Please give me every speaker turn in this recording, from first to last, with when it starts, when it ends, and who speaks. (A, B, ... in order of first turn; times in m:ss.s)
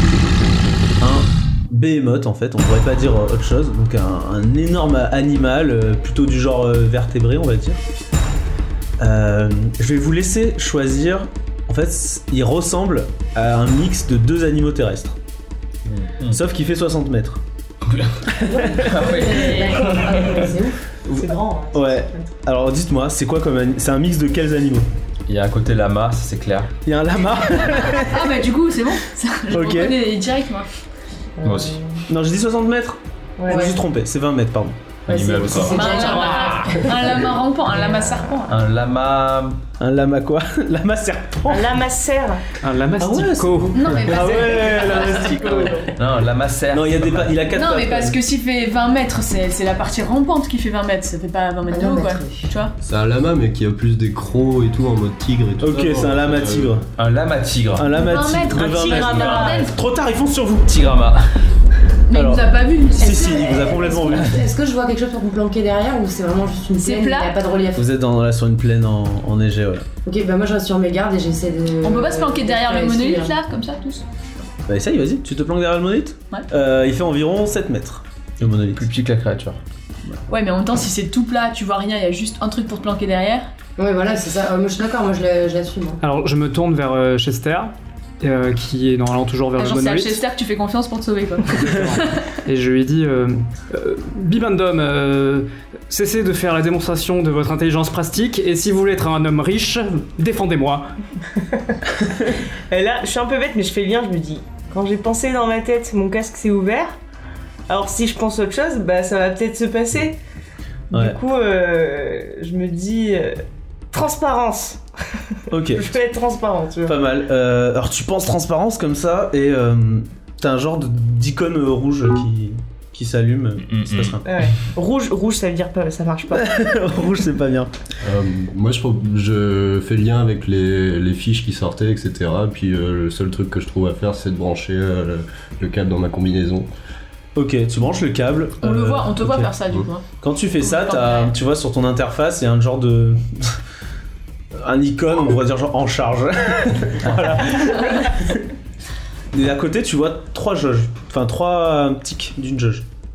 0:01.0-0:07.8 A
0:09.0-0:15.2 A
0:15.8-0:16.4 B
0:16.3-0:17.4 A
0:17.9-0:20.5 B
0:18.3-0:18.9 A
0:18.4-0:20.8 C
0:19.2-0:19.8 D
0:21.0-0:24.9 A
0:21.1-0:22.3 E
0:25.3-0:26.7 B
0:26.8-0:28.3 A
0:27.8-0:30.7 D
0:29.5-0:30.0 A
0:31.4-0:32.0 E
0:31.4-0:31.8 B
0:32.1-0:34.8 A
0:33.4-0:33.7 E
0:33.5-0:33.7 C
0:35.0-0:36.9 B
0:35.1-0:37.3 C
0:35.7-0:36.6 E
0:35.7-0:38.6 D
0:38.5-0:39.6 B
0:39.8-0:41.7 A
0:41.4-0:42.4 E
0:42.6-0:43.8 F
0:43.0-0:45.8 A
0:43.7-0:45.3 D
0:44.1-0:45.9 E
0:45.9-0:47.4 B
0:46.7-0:48.2 A
0:47.5-0:52.7 D
0:51.7-0:52.5 C
0:52.8-0:56.7 G
0:55.6-0:56.9 A
0:57.0-0:59.6 B
0:57.8-1:00.7 A
0:58.0-0:59.8 D
1:00.7-1:01.4 B
1:02.1-1:03.9 D
1:02.1-1:04.4 A
1:03.0-1:07.9 C
1:06.8-1:07.3 D
1:07.7-1:09.8 A
1:10.0-1:13.4 C
1:11.8-1:14.1 D
1:14.7-1:18.9 A
1:18.7-1:19.6 B
1:20.3-1:23.5 D
1:23.8-1:26.0 C
1:26.0-1:30.2 F
1:29.6-1:32.3 D
1:31.4-1:40.9 F
1:41.5-1:47.0 E
1:47.7-1:50.2 E
1:50.9-1:54.8 E
1:50.9-1:51.2 A
1:55.5-1:55.9 A
1:55.7-1:56.9 E
1:56.8-2:04.2 A
2:03.6-2:04.2 B
2:04.2-2:06.5 E
2:06.3-2:07.7 A
2:08.0-2:16.7 G
2:17.4-2:19.5 A
2:18.6-2:20.0 D
2:20.2-2:23.6 A
2:20.6-2:21.3 D
2:24.5-2:28.5 A
2:29.3-2:32.9 A